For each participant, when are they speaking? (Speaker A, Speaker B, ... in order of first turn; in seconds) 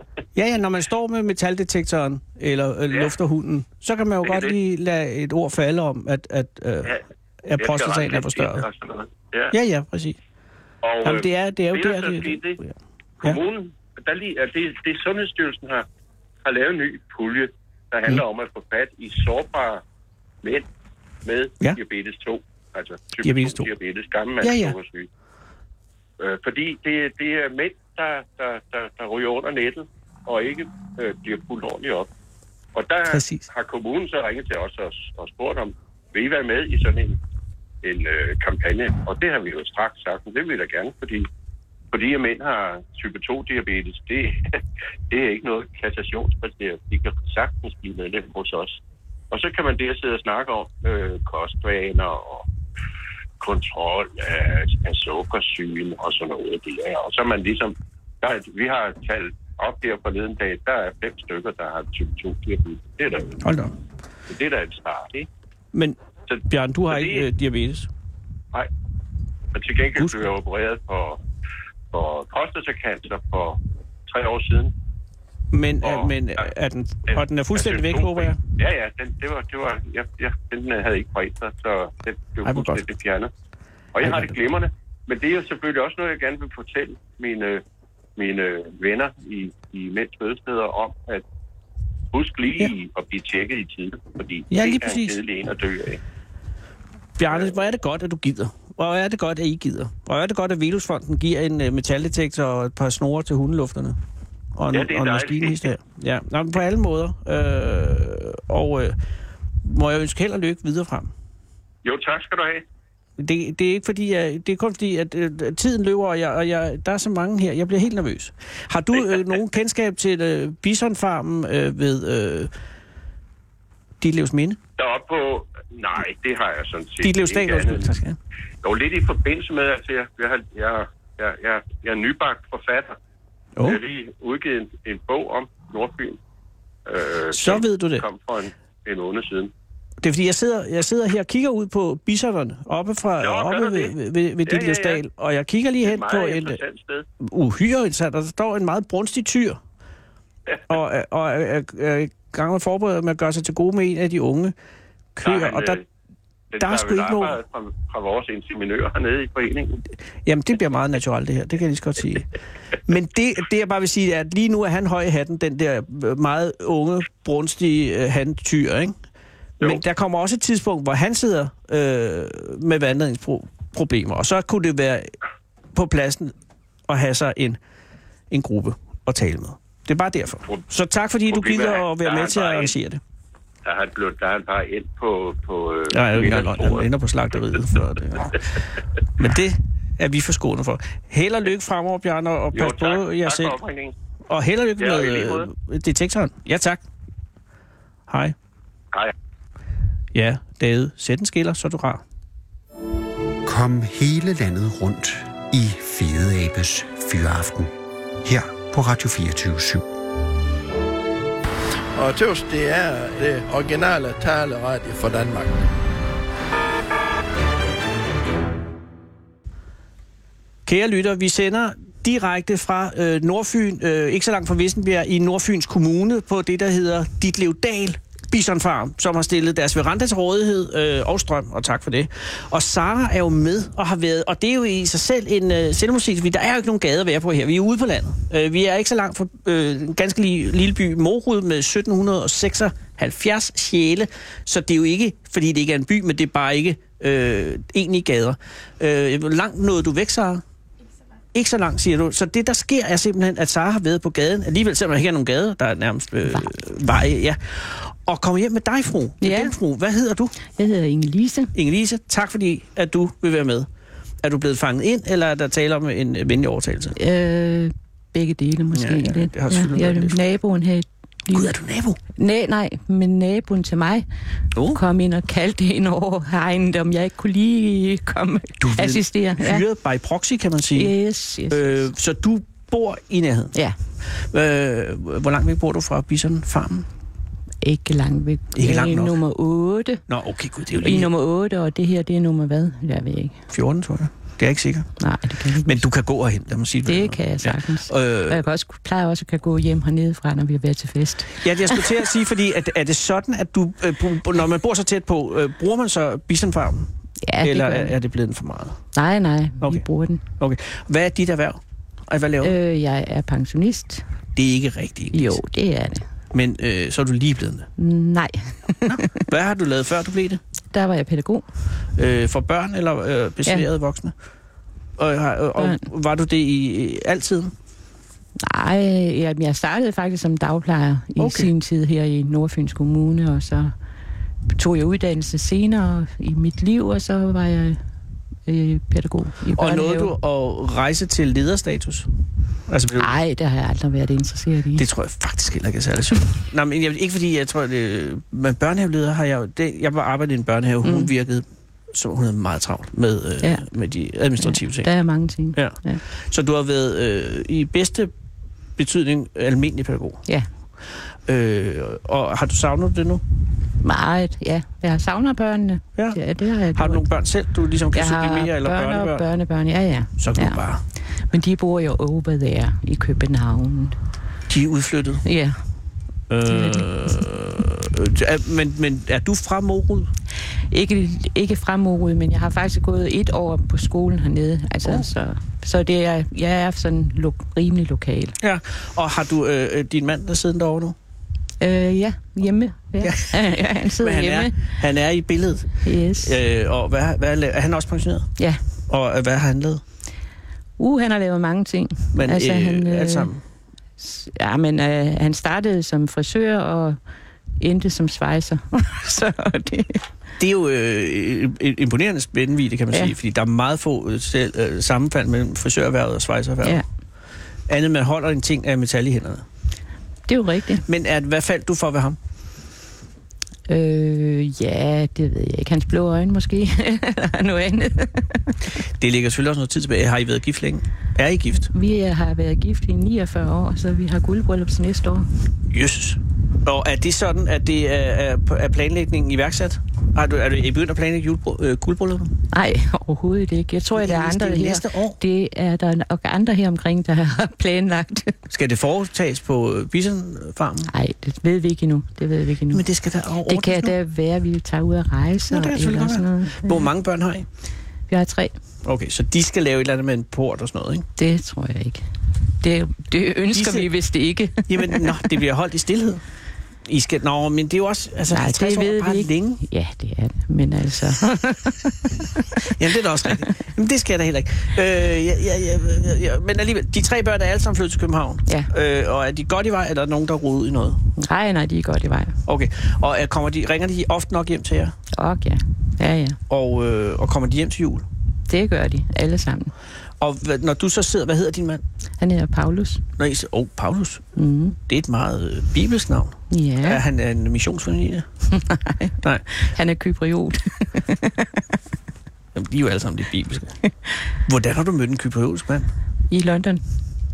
Speaker A: 0.3-8.7, 9.5-10.2, 11.0-13.4, 23.2-23.7, 24.4-24.7, 33.1-33.5, 63.4-63.7, 66.5-67.9, 75.5-78.4, 82.4-82.8, 84.0-84.3, 94.5-95.2, 97.2-104.0, 104.6-109.0, 109.6-111.1, 113.2-122.5, 124.0-124.6, 127.0-128.2, 137.3-138.0, 140.0-146.6, 147.2-149.6, 150.7-154.5, 155.1-155.8, 156.6-157.4, 160.2-162.3, 162.8-168.9, 169.6-175.1, 175.8-176.3, 176.9-177.6, 178.3-183.0, 185.9-188.5, 189.2-193.6, 194.3-196.8, 198.1-198.3, 200.1-202.0, 220.7-250.4, 251.3-260.4, 261.5-263.7, 264.2-267.0, 268.7-270.2, 271.3-272.0, 274.5-274.8, 278.6-280.9, 281.5-283.5, 284.2-286.9, 288.5-289.2, 290.1-291.1, 293.5-294.9, 295.6-298.4, 301.4-306.9, 307.4-308.8, 309.6-309.9, 310.4-312.5, 314.4-315.4, 316.3-317.7, 318.8-320.4, 322.0-324.1, 325.0-327.5, 331.2-331.5, 339.5-342.1, 342.7-343.1, 344.8-354.9, 356.3-358.1, 358.8-360.2, 361.3-363.2, 366.8-369.2, 370.2-370.8, 374.5-375.2, 376.3-380.1, 384.8-385.1, 388.4-390.9, 393.0-393.4, 394.0-398.3, 398.9-399.8, 402.1-403.4, 410.4-416.8, 417.7-419.4, 420.9-422.2, 429.0-431.7, 435.7-442.3, 444.0-445.2, 448.5-450.9, 452.7-454.0, 455.5-457.5, 458.9-461.1, 463.5-463.9, 464.7-466.2, 466.9-469.6, 472.6-481.0, 482.5-484.9, 486.5-488.0, 490.2-491.8, 493.2-494.3, 494.9-498.3, 502.5-503.8, 504.5-505.9
Speaker B: 4.2-4.5, 7.6-9.5, 10.8-12.6, 13.2-15.9, 16.4-19.8, 20.4-20.7, 21.2-25.1, 26.2-32.1, 32.8-37.2, 37.8-41.3, 41.9-48.8, 49.3-52.5, 53.4-63.4, 64.3-65.3, 66.3-67.2, 69.5-71.2, 71.9-74.7, 75.8-76.5, 77.1-83.3, 83.9-87.6, 88.2-91.2, 92.1-96.0, 104.7-105.7, 111.8-112.6, 124.8-127.9, 128.6-133.0, 133.6-136.2, 136.9-139.5, 143.2-143.9, 144.5-145.0, 145.8-147.1, 155.2-155.8, 156.5-159.8, 181.3-182.7, 183.6-186.9, 192.5-193.9, 194.8-195.5
Speaker C: 203.4-207.7, 208.2-209.8
Speaker D: 212.0-215.7
Speaker E: 259.2-259.6, 260.4-261.5, 267.0-271.5, 272.2-274.1, 274.7-279.6, 280.7-281.8, 287.6-290.0, 290.8-293.4, 295.0-295.9, 296.9-301.9, 307.2-308.0, 308.9-310.2, 312.4-314.0, 315.1-316.0, 317.8-319.2, 320.7-321.4, 325.6-325.8, 328.4-333.7, 334.6-337.8, 338.5-340.1, 343.0-344.9, 350.8-351.1, 354.4-356.0, 363.8-367.1, 367.9-370.6, 371.2-374.0, 375.2-375.6, 376.5-377.2, 380.7-388.4, 391.6-394.5, 395.8-396.3, 400.8-403.3, 404.0-407.0, 407.6-410.0, 420.3-420.9, 423.7-428.5, 431.7-435.3, 442.5-448.4, 450.9-452.9, 453.5-456.9, 458.1-458.5, 461.2-462.0, 462.6-465.4, 468.3-472.7, 481.2-482.4, 485.1-486.4, 488.5-489.7, 492.2-493.0, 494.4-494.8, 496.5-497.0, 498.5-501.6, 506.3-506.8